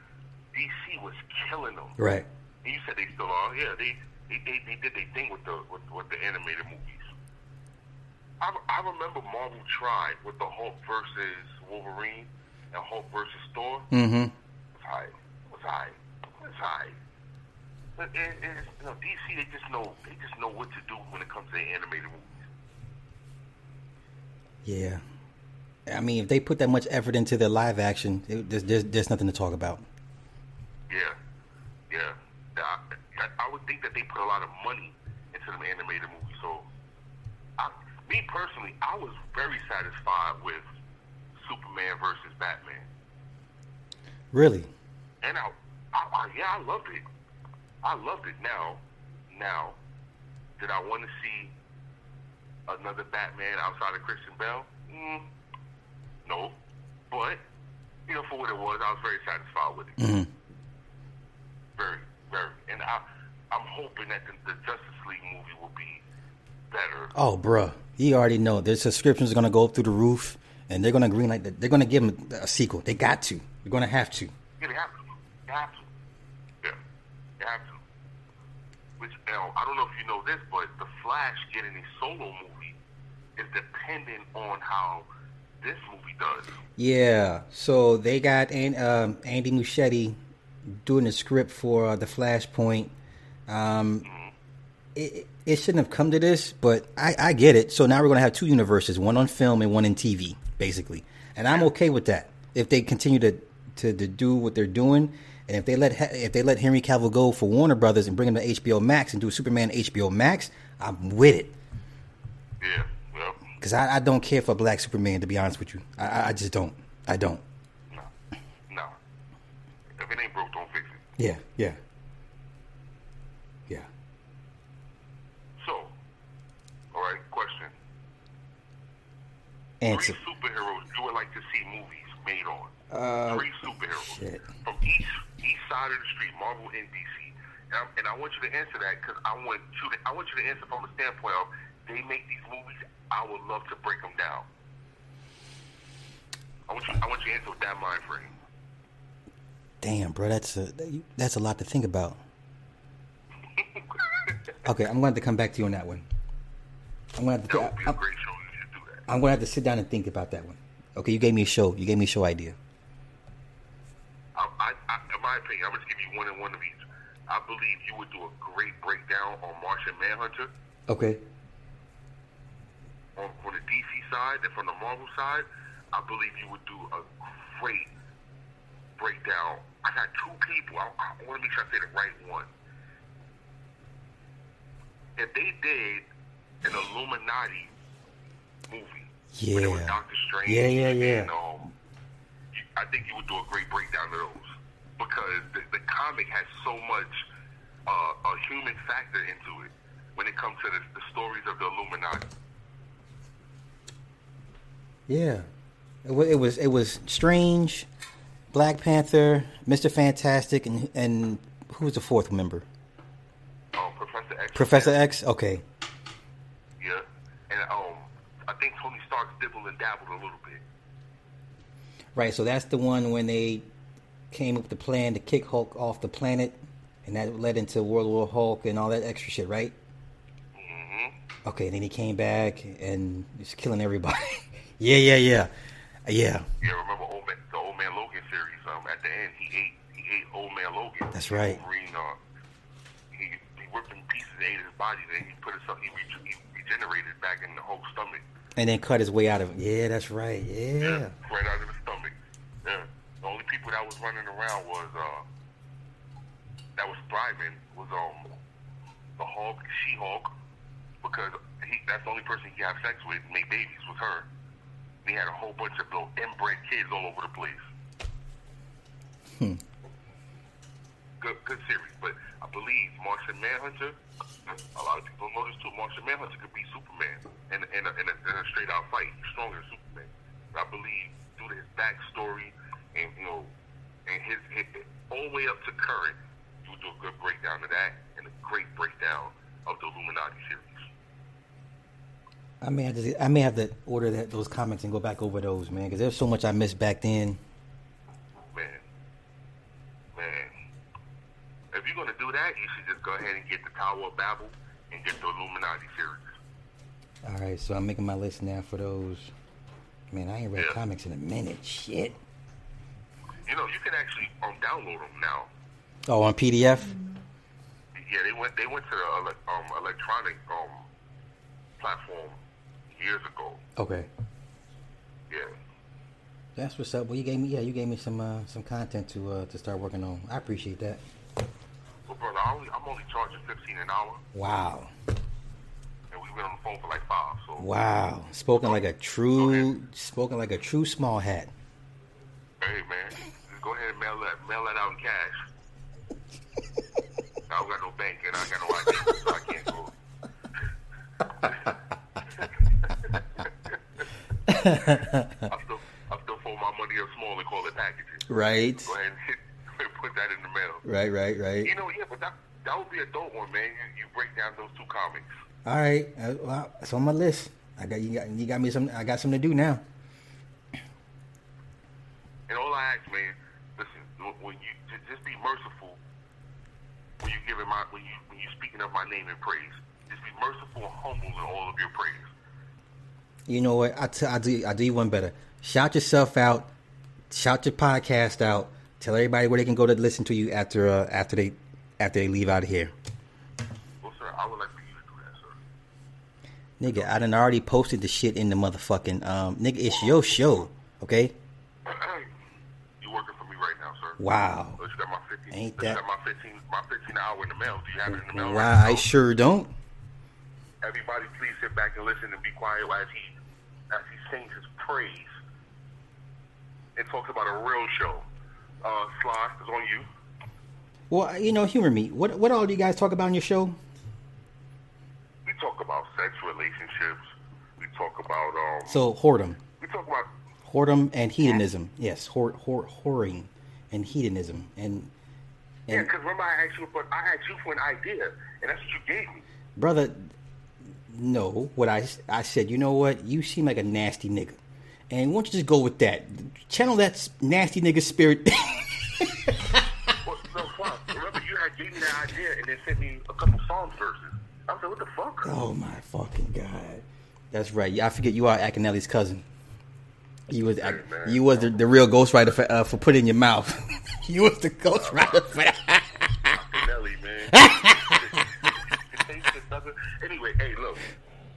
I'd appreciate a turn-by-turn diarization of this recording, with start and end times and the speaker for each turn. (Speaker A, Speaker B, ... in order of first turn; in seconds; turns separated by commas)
Speaker A: 0.5-2.0, Speaker B: 2.0-2.3, Speaker A: 2.6-7.1, Speaker A: 8.4-13.9, Speaker B: 13.9-14.3, Speaker A: 14.8-17.0, Speaker A: 18.0-22.4, Speaker B: 24.6-25.0, Speaker B: 25.9-29.9, Speaker A: 30.9-31.2, Speaker A: 31.9-36.7, Speaker A: 37.6-40.7, Speaker A: 41.4-42.9, Speaker B: 44.3-44.7, Speaker A: 45.2-47.0, Speaker A: 47.8-49.8, Speaker A: 50.6-51.5, Speaker A: 52.7-55.3, Speaker A: 56.2-56.6, Speaker A: 57.1-57.4, Speaker A: 58.1-60.0, Speaker B: 60.0-60.3, Speaker A: 61.8-66.0, Speaker A: 66.7-67.1, Speaker B: 67.2-74.3, Speaker A: 74.6-75.9, Speaker A: 77.4-77.8, Speaker A: 79.0-82.8, Speaker A: 83.4-85.1, Speaker A: 85.6-86.6, Speaker B: 86.8-90.2, Speaker B: 90.7-92.9, Speaker B: 93.5-94.1, Speaker A: 94.0-94.3, Speaker B: 95.0-111.6, Speaker A: 112.6-113.4, Speaker B: 113.6-117.4, Speaker A: 118.7-119.0, Speaker A: 120.0-121.0, Speaker B: 121.2-121.8, Speaker A: 125.6-125.9, Speaker A: 126.9-127.8, Speaker B: 129.8-130.2, Speaker A: 129.9-132.7, Speaker B: 132.9-134.5, Speaker A: 133.3-144.5, Speaker A: 146.7-148.3, Speaker B: 149.8-152.2, Speaker A: 153.6-154.3, Speaker B: 154.6-156.1, Speaker B: 157.2-158.0, Speaker A: 157.5-159.1, Speaker B: 159.1-162.6, Speaker A: 164.3-170.5, Speaker B: 170.9-171.2, Speaker A: 173.2-177.9, Speaker A: 179.0-182.5, Speaker A: 185.2-186.1, Speaker A: 186.6-187.7, Speaker A: 188.7-191.7, Speaker B: 189.3-191.3, Speaker A: 192.5-197.3, Speaker A: 197.9-202.3, Speaker B: 205.1-205.5, Speaker B: 206.1-207.9, Speaker B: 208.5-212.7, Speaker A: 213.7-215.0, Speaker B: 214.6-215.6, Speaker A: 216.8-220.6, Speaker B: 222.2-223.7, Speaker B: 224.3-229.7, Speaker A: 230.5-231.2, Speaker B: 231.4-235.5, Speaker B: 236.1-236.5, Speaker A: 236.6-242.2, Speaker B: 241.1-241.6, Speaker A: 243.1-248.2, Speaker B: 248.6-251.1, Speaker A: 250.8-255.3, Speaker A: 256.8-258.3, Speaker A: 259.2-260.3, Speaker A: 261.0-264.3, Speaker A: 265.0-267.6, Speaker B: 269.4-269.6, Speaker A: 271.2-283.5, Speaker A: 284.1-290.9, Speaker B: 292.6-297.4, Speaker A: 298.5-298.9, Speaker A: 300.1-300.5, Speaker A: 301.7-306.4, Speaker B: 307.2-309.3, Speaker B: 310.1-312.2, Speaker A: 313.5-315.5, Speaker B: 316.1-317.0, Speaker A: 317.9-320.9, Speaker A: 321.8-322.4, Speaker A: 322.9-323.6, Speaker B: 323.8-324.1, Speaker B: 326.6-331.0, Speaker A: 332.1-334.2, Speaker B: 334.3-334.9, Speaker A: 336.1-337.7, Speaker B: 337.6-341.5, Speaker A: 339.4-339.7, Speaker A: 342.6-345.4, Speaker A: 347.5-349.9, Speaker A: 351.4-351.7, Speaker A: 352.4-354.0, Speaker B: 354.5-355.5, Speaker A: 355.5-358.3, Speaker B: 358.3-358.9, Speaker A: 358.9-360.8, Speaker B: 360.9-361.7, Speaker A: 361.6-365.3, Speaker B: 365.6-369.8, Speaker A: 372.5-376.0, Speaker A: 377.2-382.3, Speaker B: 383.5-386.7, Speaker B: 387.3-392.9, Speaker A: 394.0-395.6, Speaker B: 396.8-401.3, Speaker A: 396.9-397.2, Speaker A: 401.9-402.3, Speaker A: 403.0-404.2, Speaker B: 404.2-404.8, Speaker A: 404.8-409.1, Speaker B: 405.5-406.0, Speaker B: 408.1-409.7, Speaker A: 410.8-413.4, Speaker A: 413.9-415.3, Speaker A: 417.0-418.3, Speaker A: 418.8-420.1, Speaker B: 421.1-423.8, Speaker A: 425.4-427.2, Speaker A: 427.8-429.0, Speaker B: 428.9-429.6, Speaker A: 429.8-430.3, Speaker B: 430.6-435.1, Speaker A: 435.9-439.4, Speaker B: 439.8-440.3, Speaker B: 441.1-444.6, Speaker B: 445.1-449.8, Speaker A: 450.2-455.5, Speaker B: 455.4-459.4, Speaker B: 460.5-466.4, Speaker A: 460.8-461.8, Speaker A: 464.9-465.8, Speaker A: 466.5-471.1, Speaker B: 467.5-468.2